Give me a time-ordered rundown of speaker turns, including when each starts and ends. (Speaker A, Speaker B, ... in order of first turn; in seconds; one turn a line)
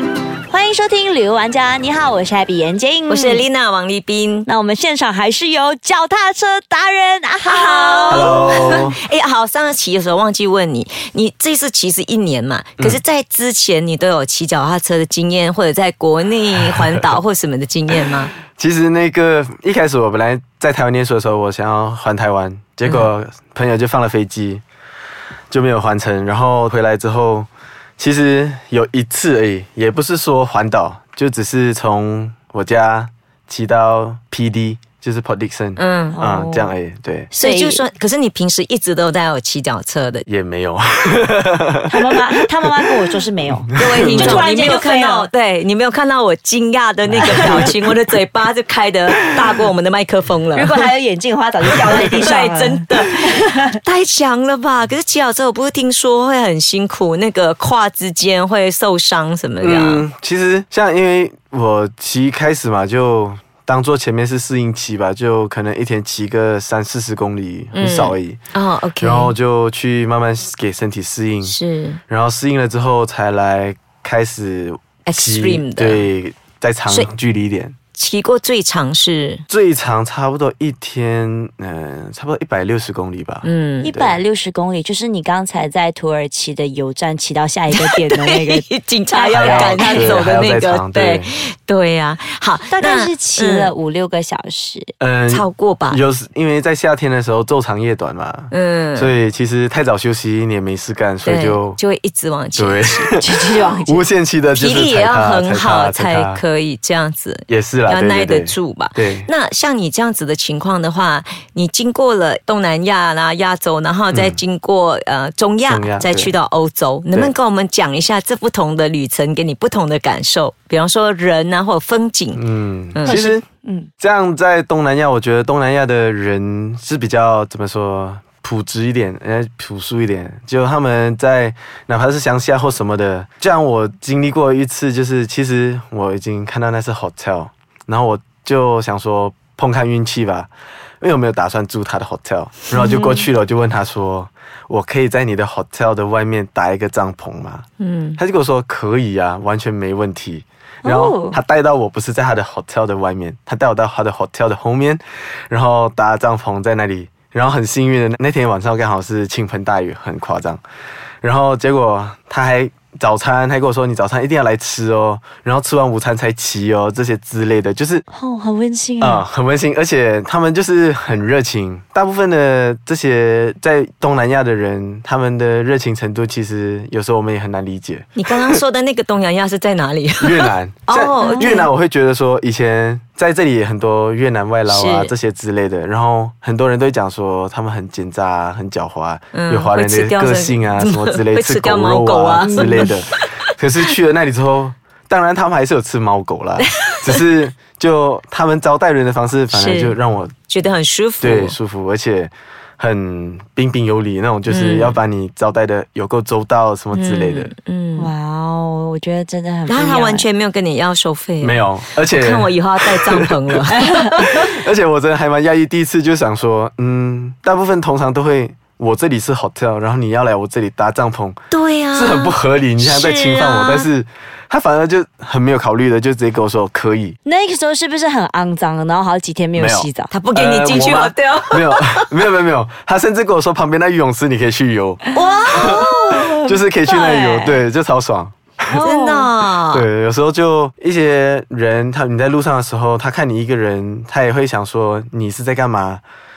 Speaker A: 0.5-3.4
Speaker B: 3.1-4.5
Speaker A: 4.5-8.5
Speaker B: 7.5-18.4
Speaker C: 8.1-9.0
Speaker C: 16.6-17.1
Speaker C: 18.5-24.6
Speaker B: 22.9-23.1
Speaker C: 25.5-37.3
Speaker B: 35.8-36.2
Speaker A: 36.1-36.8
Speaker B: 37.3-40.3
Speaker A: 37.4-37.8
Speaker C: 40.3-42.8
Speaker A: 41.9-45.3
Speaker C: 43.7-44.5
Speaker B: 43.8-50.8
Speaker C: 47.1-47.7
Speaker A: 47.2-47.7
Speaker A: 50.5-53.8
Speaker B: 51.8-60.0
Speaker C: 59.6-68.4
Speaker B: 67.8-69.3
Speaker C: 69.0-71.6
Speaker B: 71.5-72.0
Speaker C: 72.1-77.8
Speaker B: 75.0-76.1
Speaker B: 78.0-79.4
Speaker C: 79.5-84.2
Speaker B: 83.5-83.9
Speaker A: 83.8-90.2
Speaker B: 87.7-93.7
Speaker C: 89.3-91.3
Speaker A: 92.7-94.9
Speaker C: 95.0-101.8
Speaker B: 95.3-96.0
Speaker B: 98.5-99.1
Speaker B: 101.2-103.6
Speaker C: 102.6-106.4
Speaker A: 103.2-104.1
Speaker B: 104.5-122.4
Speaker C: 107.5-109.3
Speaker C: 114.1-114.4
Speaker C: 115.7-116.3
Speaker C: 122.3-123.4
Speaker A: 123.1-123.9
Speaker C: 124.0-140.5
Speaker C: 141.0-147.7
Speaker A: 142.7-143.3
Speaker B: 147.8-148.2
Speaker C: 148.2-160.6
Speaker A: 150.8-151.4
Speaker C: 161.2-168.1
Speaker A: 168.1-169.2
Speaker C: 169.0-178.6
Speaker B: 178.2-181.7
Speaker C: 180.2-200.3
Speaker A: 181.2-181.6
Speaker B: 184.7-185.1
Speaker B: 189.3-193.3
Speaker A: 192.4-192.8
Speaker B: 199.5-200.0
Speaker B: 200.5-201.6
Speaker C: 201.2-207.5
Speaker B: 204.5-205.0
Speaker B: 206.9-208.1
Speaker A: 208.0-210.3
Speaker B: 209.7-214.4
Speaker C: 211.4-221.4
Speaker A: 213.8-214.0
Speaker B: 221.5-223.9
Speaker C: 221.9-227.2
Speaker A: 227.2-230.1
Speaker C: 229.6-238.7
Speaker B: 230.1-232.2
Speaker A: 235.1-237.6
Speaker B: 235.2-235.8
Speaker A: 238.7-239.3
Speaker B: 238.8-239.8
Speaker C: 239.7-246.0